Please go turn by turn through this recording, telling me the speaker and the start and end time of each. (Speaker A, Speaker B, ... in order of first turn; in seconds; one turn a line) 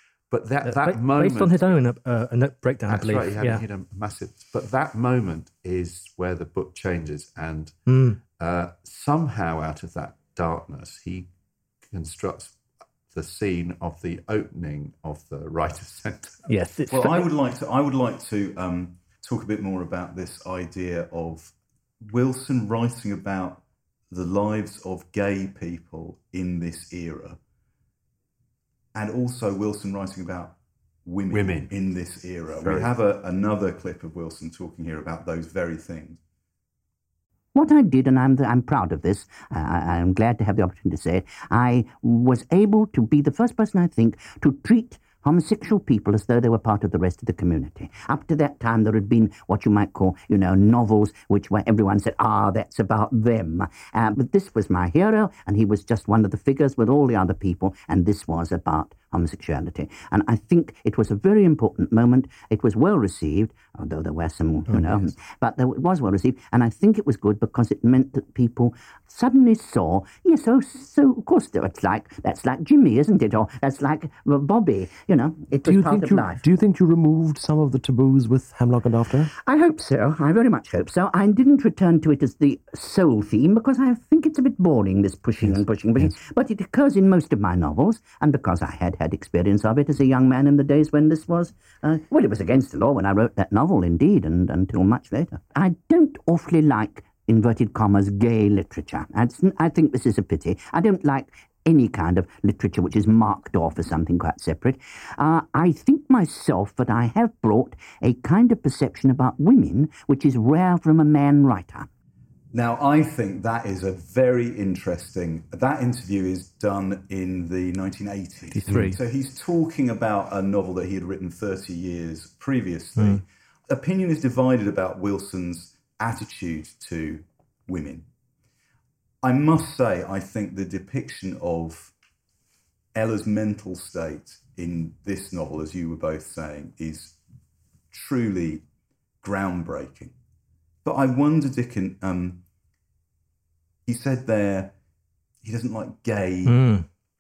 Speaker A: 0.3-1.7
Speaker B: 0.7-3.6
Speaker A: 2.9-7.8
Speaker B: 7.9-8.2
Speaker A: 8.4-11.3
Speaker A: 11.9-12.6
Speaker A: 13.1-16.4
Speaker B: 16.5-17.3
Speaker C: 16.9-27.4
Speaker C: 28.9-36.2
Speaker A: 31.3-31.7
Speaker A: 32.6-32.9
Speaker D: 37.5-76.4
Speaker E: 75.6-79.3
Speaker D: 79.2-111.9
Speaker C: 112.5-128.1
Speaker B: 118.5-119.0
Speaker B: 123.0-123.2
Speaker C: 129.2-131.9
Speaker C: 132.9-137.2
Speaker C: 137.9-138.6
Speaker C: 139.2-140.2
Speaker C: 140.8-142.4
Speaker C: 143.9-144.7
Speaker C: 145.4-146.6
Speaker B: 146.5-146.9